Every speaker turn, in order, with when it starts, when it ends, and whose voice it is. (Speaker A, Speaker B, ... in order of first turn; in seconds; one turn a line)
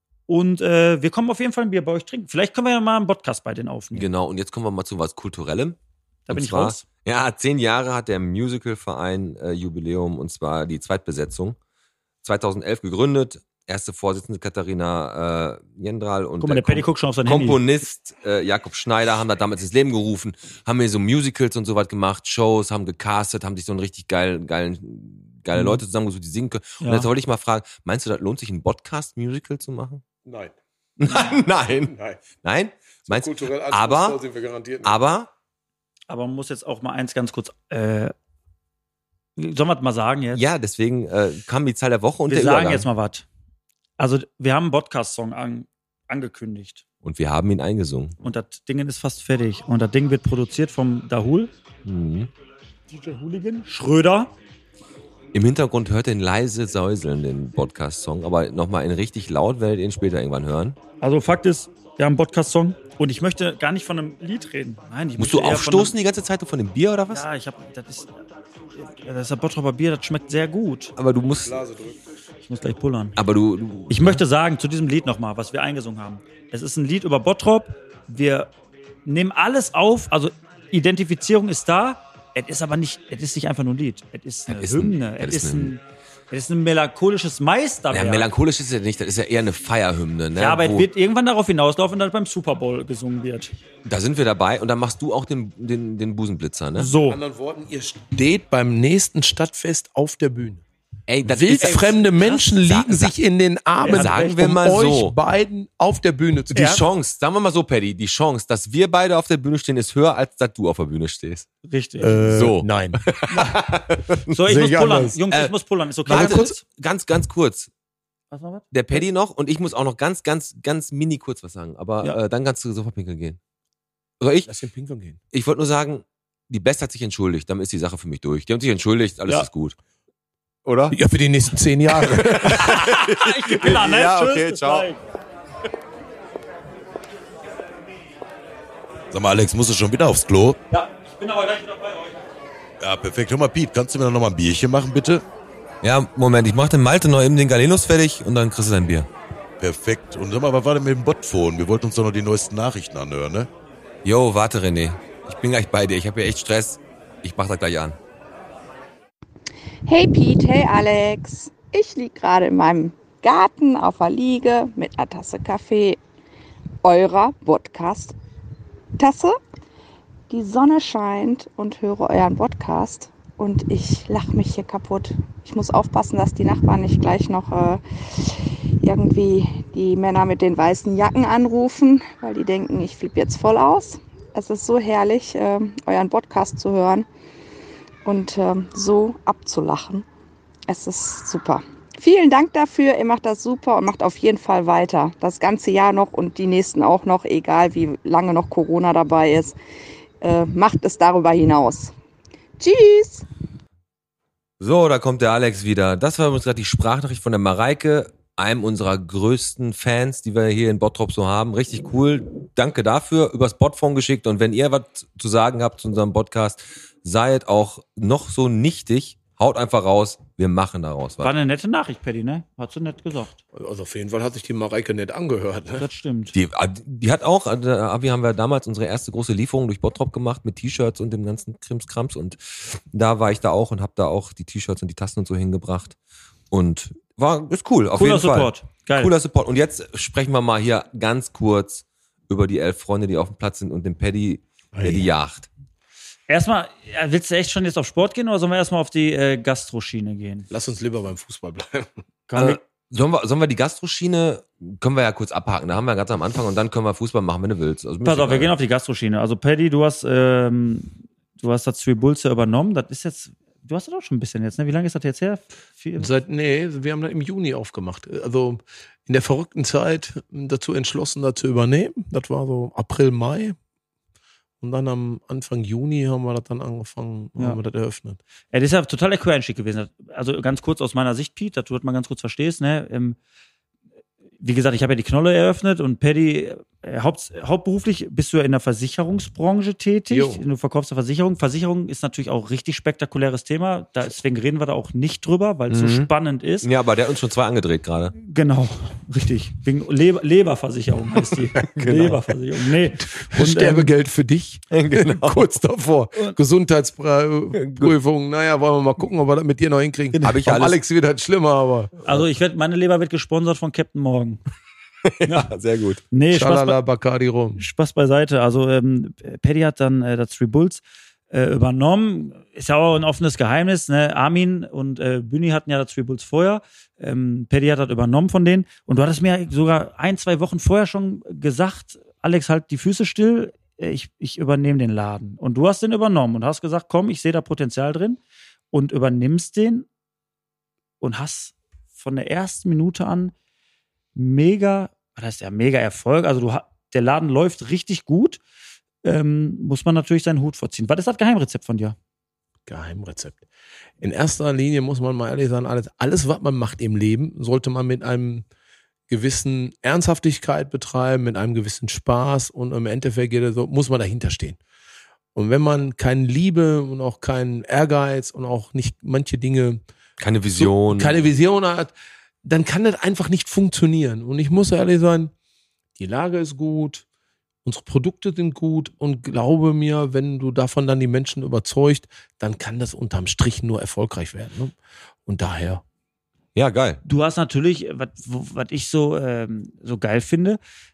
Speaker A: 0.3-4.1
Speaker B: 3.9-5.8
Speaker A: 6.3-6.8
Speaker B: 6.3-11.6
Speaker B: 12.2-30.0
Speaker A: 16.4-17.6
Speaker A: 25.5-25.8
Speaker A: 26.8-27.1
Speaker C: 30.2-30.5
Speaker B: 31.0-34.2
Speaker C: 31.8-32.2
Speaker C: 33.0-35.0
Speaker B: 34.8-35.3
Speaker A: 36.1-38.1
Speaker A: 39.4-40.4
Speaker B: 40.3-42.9
Speaker A: 42.3-43.2
Speaker A: 44.0-46.8
Speaker B: 47.0-48.1
Speaker A: 48.2-51.5
Speaker B: 51.8-52.3
Speaker A: 52.9-54.3
Speaker B: 55.3-60.8
Speaker A: 61.0-65.9
Speaker B: 65.2-67.3
Speaker A: 67.1-68.1
Speaker A: 68.8-70.9
Speaker B: 71.0-71.6
Speaker C: 71.4-72.0
Speaker A: 72.5-73.2
Speaker B: 73.2-74.2
Speaker A: 73.9-78.5
Speaker A: 79.0-88.3
Speaker B: 84.5-85.7
Speaker B: 87.9-90.9
Speaker A: 90.3-93.5
Speaker B: 93.8-96.9
Speaker A: 96.7-97.2
Speaker C: 97.0-100.6
Speaker B: 101.1-103.1
Speaker C: 101.2-106.8
Speaker A: 101.6-102.5
Speaker A: 103.8-104.3
Speaker B: 103.9-105.1
Speaker A: 106.5-106.8
Speaker B: 106.5-111.5
Speaker A: 111.6-112.2
Speaker C: 112.0-113.0
Speaker B: 112.2-114.3
Speaker A: 113.3-113.5
Speaker A: 114.3-116.6
Speaker C: 114.4-115.2
Speaker B: 116.1-117.7
Speaker C: 116.1-116.5
Speaker A: 118.3-119.0
Speaker B: 118.7-123.4
Speaker B: 124.2-124.5
Speaker C: 124.5-125.2
Speaker B: 125.3-129.8
Speaker B: 130.6-131.0
Speaker C: 130.9-132.7
Speaker B: 132.0-134.9
Speaker A: 132.5-135.0
Speaker D: 139.1-140.6
Speaker A: 140.7-142.2
Speaker D: 142.8-145.2
Speaker B: 145.8-149.1
Speaker D: 149.6-153.5
Speaker B: 154.0-158.0
Speaker E: 159.8-166.0
Speaker E: 166.8-168.1
Speaker E: 169.0-169.4
Speaker E: 170.3-187.1
Speaker E: 188.0-190.0
Speaker E: 190.7-199.5
Speaker E: 200.2-201.9
Speaker E: 202.6-203.2
Speaker B: 204.6-221.3
Speaker A: 221.2-223.4
Speaker C: 223.5-225.8
Speaker A: 225.8-226.3
Speaker B: 226.3-235.9
Speaker B: 236.5-245.5
Speaker A: 237.9-239.1
Speaker C: 244.7-245.1
Speaker A: 246.3-250.5
Speaker C: 250.5-251.9
Speaker A: 252.3-252.6
Speaker B: 252.3-258.5
Speaker A: 258.0-266.1
Speaker C: 266.0-273.6
Speaker C: 274.6-278.2
Speaker A: 278.5-283.2
Speaker A: 284.4-296.7
Speaker C: 290.1-290.4
Speaker B: 295.7-296.1
Speaker B: 296.6-298.1
Speaker A: 298.2-303.9
Speaker B: 301.3-302.3
Speaker C: 303.0-312.0
Speaker B: 304.7-305.6
Speaker B: 307.6-307.9
Speaker B: 310.2-310.8
Speaker A: 312.0-314.4
Speaker B: 315.0-316.0
Speaker A: 316.1-316.8
Speaker C: 316.3-317.6
Speaker A: 317.6-338.2
Speaker A: 338.7-339.9
Speaker A: 341.0-343.3
Speaker A: 344.1-348.4
Speaker A: 349.0-351.9
Speaker C: 352.7-353.4
Speaker C: 354.0-358.4
Speaker C: 359.1-364.6
Speaker C: 365.3-369.8
Speaker B: 370.2-371.2
Speaker C: 370.5-371.9
Speaker C: 372.4-375.3
Speaker C: 376.0-377.0
Speaker C: 377.6-384.7
Speaker C: 385.2-385.8
Speaker B: 386.5-387.0
Speaker A: 387.0-390.6